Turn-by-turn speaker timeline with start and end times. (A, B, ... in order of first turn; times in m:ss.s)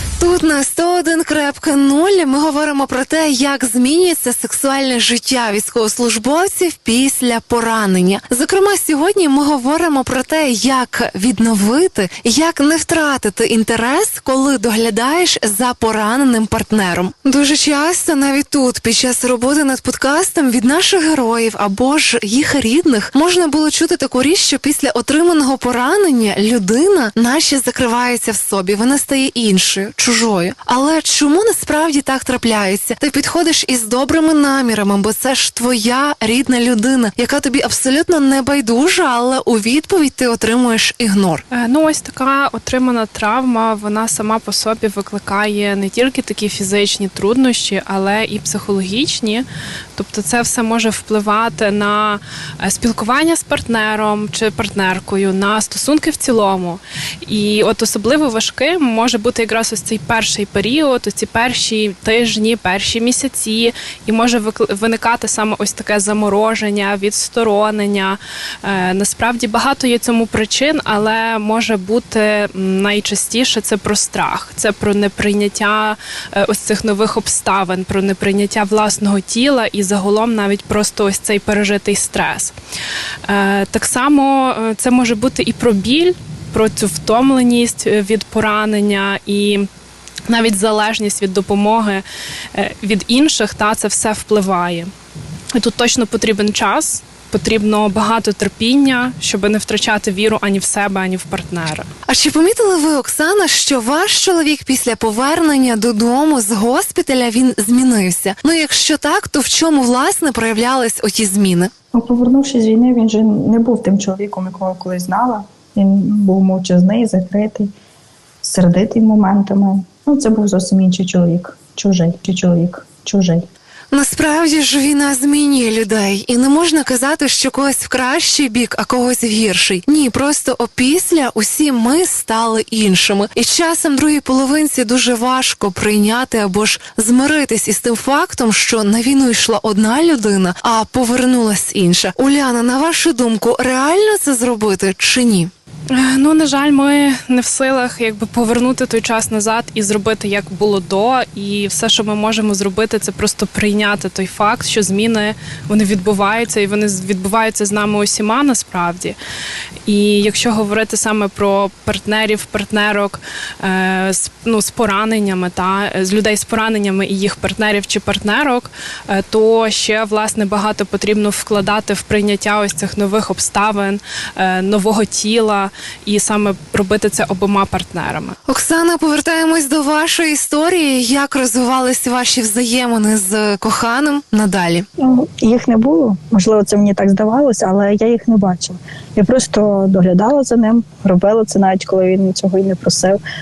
0:00.2-0:41.4 A
0:41.5-1:22.5 B
1:23.3-1:29.7 B
1:30.3-1:34.9 B
1:35.5-1:41.9 B
1:42.1-1:51.7 A
1:51.9-1:57.7 C
1:58.4-2:03.5 C
2:03.9-2:25.5 A
2:25.9-2:39.2 B
2:39.9-2:58.4 B
2:58.5-3:04.9 A
3:05.0-3:13.2 C